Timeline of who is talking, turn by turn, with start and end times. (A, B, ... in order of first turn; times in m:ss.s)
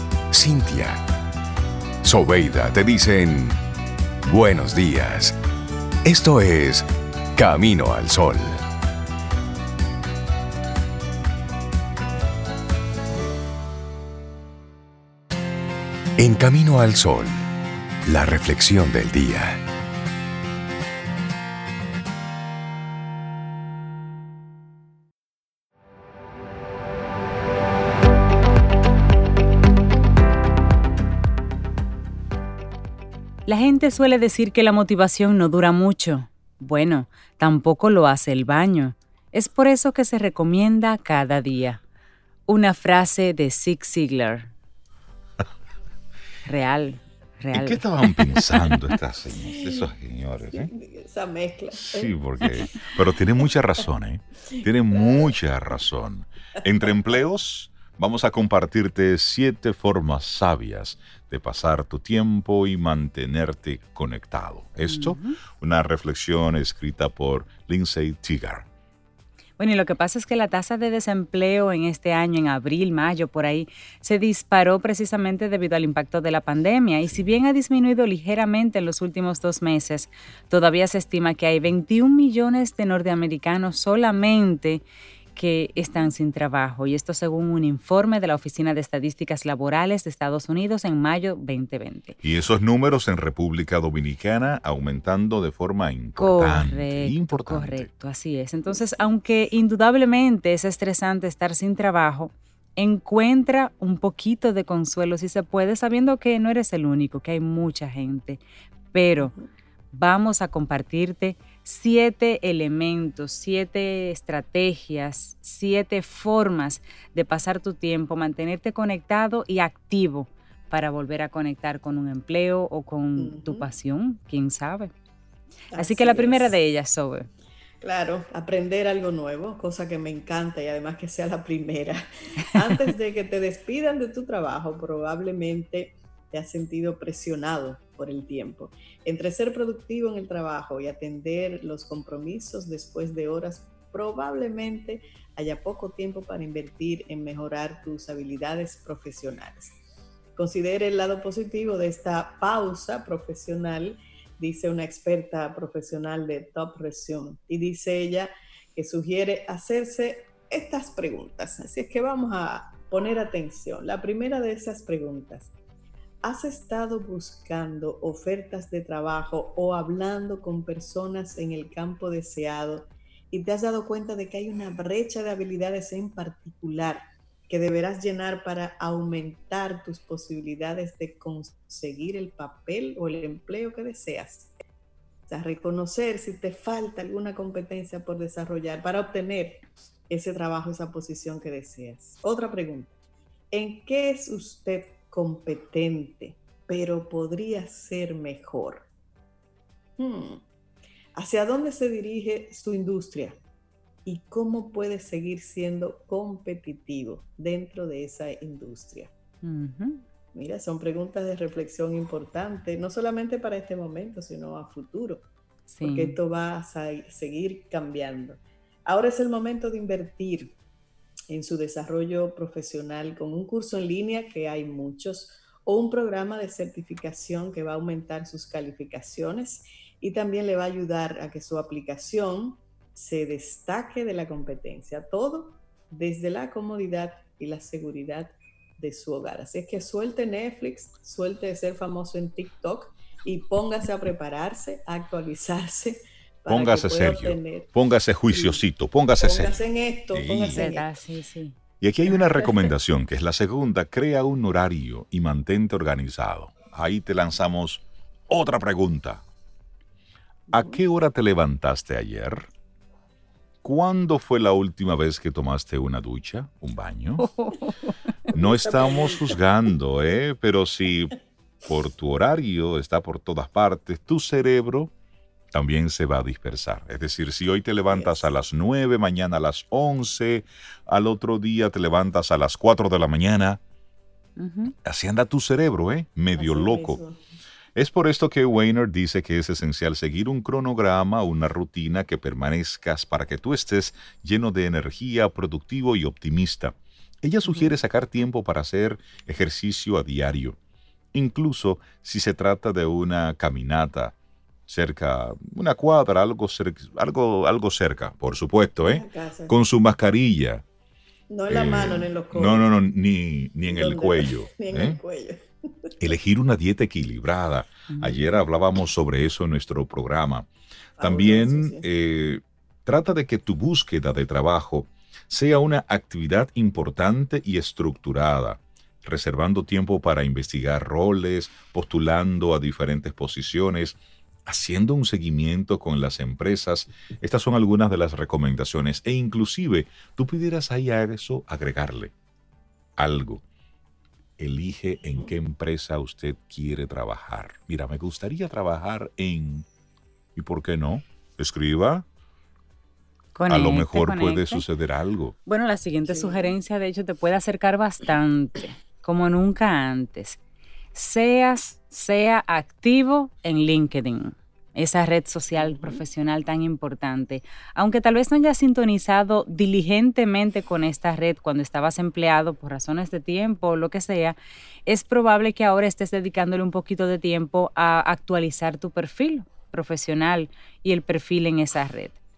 0:00.3-0:01.0 A
0:02.0-0:03.6 A
0:04.3-0:05.3 A
0:06.0-0:08.6 A
0:16.2-0:17.3 A
0:18.0-0:19.6 A
0:33.4-0:41.8 B
0:42.5-0:44.5 B
0:46.4-0:48.8 B
0:47.5-0:50.7 C
0:49.4-0:49.9 D
0:50.5-0:52.9 D
0:51.7-1:08.7 C
0:54.5-0:55.3 D
1:04.9-1:05.4 B
1:09.6-1:32.2 B
1:17.0-1:17.4 C
1:32.2-1:37.9 C
1:36.2-1:49.3 B
1:49.2-1:49.5 D
1:49.9-2:04.9 B
2:03.2-2:03.7 D
2:05.7-2:06.6 D
2:05.7-2:07.3 B
2:07.8-2:29.8 D
2:30.4-2:45.5 D
2:46.2-3:04.5 D
3:05.3-3:12.9 D
3:13.5-3:18.9 D
3:20.0-3:20.4 D
3:21.1-3:23.4 D
3:24.0-3:29.1 D
3:29.4-3:30.0 B
3:30.3-3:35.2 D
3:35.7-3:36.2 B
3:35.8-3:40.6 D
3:41.3-4:07.7 D
4:06.5-4:09.6 C
4:08.3-4:08.6 D
4:09.2-4:10.9 D
4:10.1-4:10.6 C
4:10.5-4:11.6 B
4:11.8-4:19.2 C
4:20.5-4:22.5 C
4:23.6-4:27.3 C
4:27.2-4:28.3 B
4:28.3-4:29.4 D
4:28.3-4:31.1 C
4:31.6-4:34.9 C
4:35.5-4:43.6 C
4:37.8-4:38.3 D
4:44.4-4:44.7 B
4:44.8-4:47.0 C
4:46.3-4:47.2 D
4:47.7-5:00.6 C
4:57.4-4:57.7 D
5:01.1-5:04.1 C
5:04.7-5:10.6 C
5:08.9-5:09.6 D
5:11.3-5:12.7 D
5:11.5-5:15.0 C
5:13.6-5:15.9 D
5:16.0-5:20.5 C
5:17.9-5:18.3 B
5:21.0-5:21.9 D
5:21.0-5:42.1 C
5:43.0-5:43.4 C
5:44.4-5:49.6 C
5:50.3-5:52.0 C
5:53.3-5:54.7 B
5:53.5-5:55.4 C
5:55.4-6:00.4 B
5:56.0-5:56.6 D
6:00.9-6:22.2 B
6:05.6-6:06.0 D